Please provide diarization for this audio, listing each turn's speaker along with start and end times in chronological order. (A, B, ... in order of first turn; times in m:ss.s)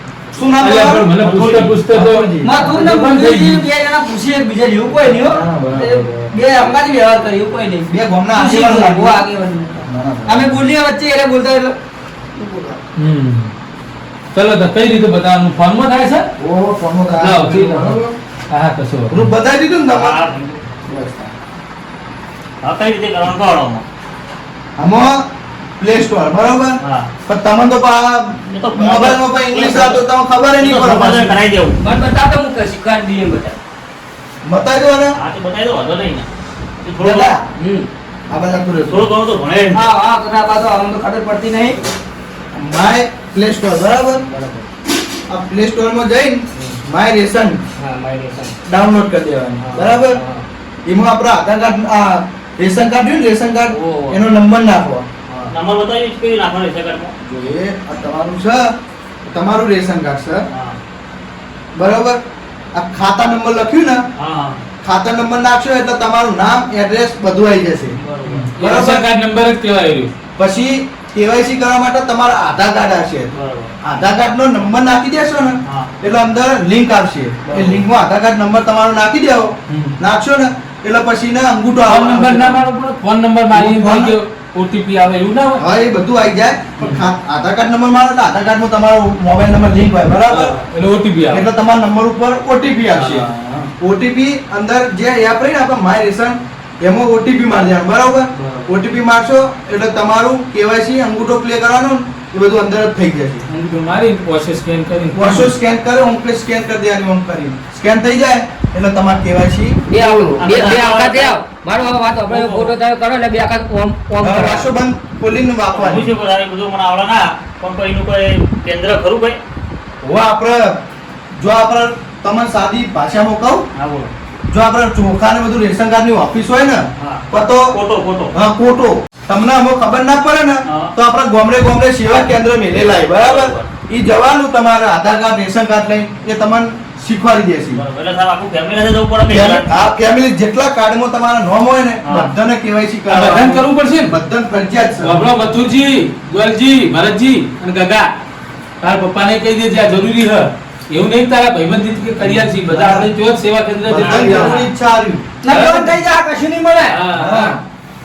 0:00.3-0:02.5 A
0:00.6-0:03.6 B
0:02.4-0:11.7 C
0:05.0-0:06.4 A
0:07.9-0:09.2 A
0:09.8-0:10.6 A
0:12.4-0:12.8 C
0:13.0-0:13.5 B
0:14.3-0:16.3 B
0:16.4-0:18.2 A
0:17.2-0:18.0 B
0:18.5-0:19.2 B
0:19.1-0:20.2 A
0:19.9-0:20.7 D
0:20.8-0:21.3 A
0:22.6-0:23.8 D
0:24.8-0:25.2 A
0:25.8-0:31.4 A
0:26.8-0:27.1 D
0:28.5-0:30.0 D
0:30.6-0:31.8 D
0:31.8-0:33.6 E
0:34.4-0:35.2 A
0:35.1-0:36.3 D
0:36.8-0:37.3 D
0:37.0-0:37.4 A
0:37.6-0:37.9 E
0:38.3-0:39.0 A
0:38.8-0:39.8 D
0:39.7-0:41.8 C
0:42.5-0:44.2 A
0:44.3-0:44.6 E
0:45.3-0:47.6 A
0:47.8-0:48.6 E
0:48.6-0:50.2 A
0:49.6-0:50.4 E
0:50.9-0:55.1 A
0:53.7-0:54.2 E
0:55.5-0:57.1 D
0:57.2-0:58.7 A
0:59.3-1:00.4 A
1:00.5-1:00.8 D
1:01.8-1:02.2 A
1:02.7-1:04.0 A
1:04.2-1:04.6 D
1:04.8-1:08.0 A
1:08.0-1:08.5 D
1:08.3-1:10.1 B
1:08.6-1:09.0 A
1:10.4-1:13.3 A
1:13.3-1:13.7 D
1:13.8-1:22.6 A
1:15.6-1:15.9 D
1:17.5-1:17.8 D
1:21.9-1:25.6 B
1:23.5-1:24.2 A
1:25.6-1:30.5 A
1:30.3-1:31.5 B
1:31.3-1:33.3 A
1:32.9-1:33.7 B
1:33.8-1:43.4 A
1:38.4-1:38.7 B
1:43.5-1:45.5 B
1:45.1-1:49.8 A
1:49.9-1:54.7 E
1:50.0-1:51.4 D
1:52.3-1:52.7 D
1:54.2-1:56.1 A
1:55.7-1:59.4 D
2:00.0-2:00.8 A
2:01.4-2:03.6 A
2:03.8-2:04.1 D
2:04.5-2:07.7 A
2:07.0-2:08.3 D
2:08.3-2:17.8 A
2:10.7-2:10.9 D
2:13.1-2:13.7 D
2:17.7-2:19.7 D
2:19.3-2:25.2 A
2:22.0-2:22.3 D
2:23.1-2:24.1 B
2:25.0-2:28.1 B
2:28.8-2:34.6 B
2:32.2-2:33.1 A
2:33.8-2:35.2 A
2:35.4-2:37.0 C
2:35.5-2:36.0 B
2:36.9-2:37.6 B
2:37.1-2:37.6 A